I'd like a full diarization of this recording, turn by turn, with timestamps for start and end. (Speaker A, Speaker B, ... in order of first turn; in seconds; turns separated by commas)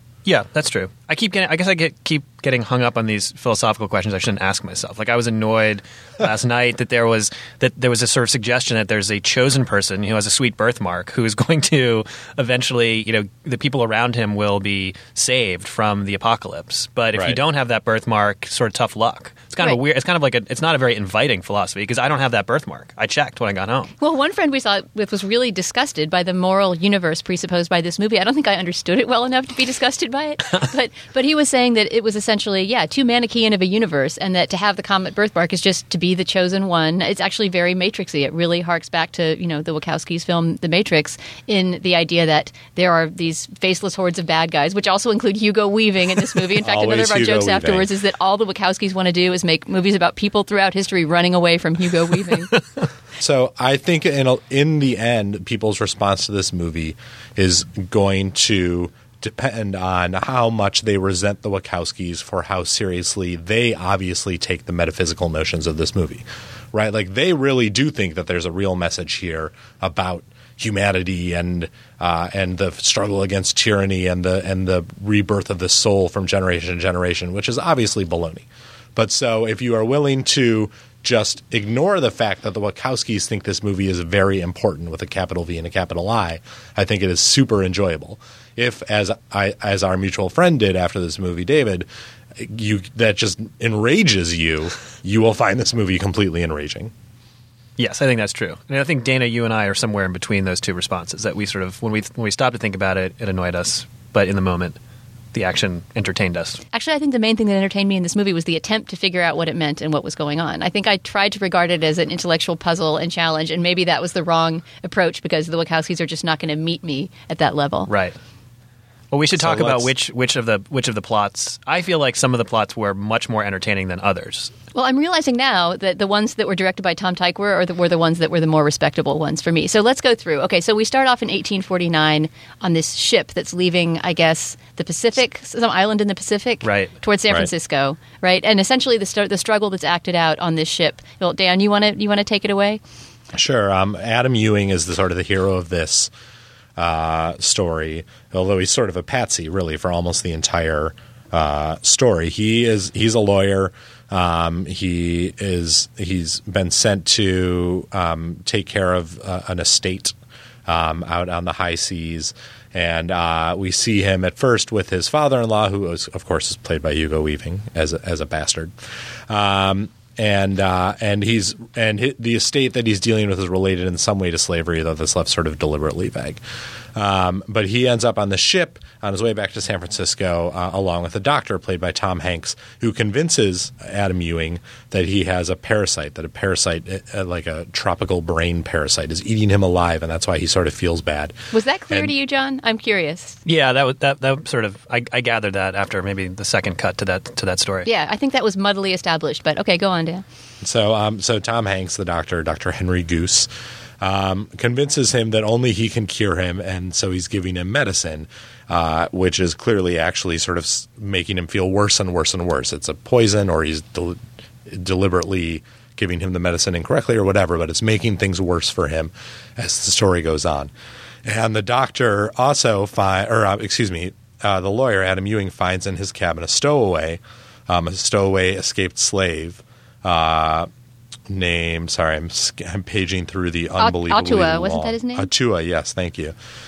Speaker A: 0.2-23.9, Speaker B: 24.0-52.5, Speaker C: 46.6-47.9, Speaker C: 53.2-96.9, Speaker A: 97.8-104.8, Speaker A: 105.3-106.6, Speaker B: 106.7-117.9, Speaker A: 117.9-118.2, Speaker A: 119.1-124.5, Speaker C: 119.3-119.9, Speaker B: 124.8-142.8, Speaker A: 136.6-136.9, Speaker C: 143.3-146.1, Speaker C: 146.8-160.1, Speaker C: 160.7-168.7, Speaker C: 169.3-176.4, Speaker C: 176.9-191.4, Speaker B: 191.5-193.4, Speaker A: 193.5-197.9, Speaker B: 197.9-200.2, Speaker C: 200.6-203.5, Speaker C: 204.0-220.7, Speaker C: 221.2-230.7, Speaker C: 231.3-236.3, Speaker B: 233.8-235.3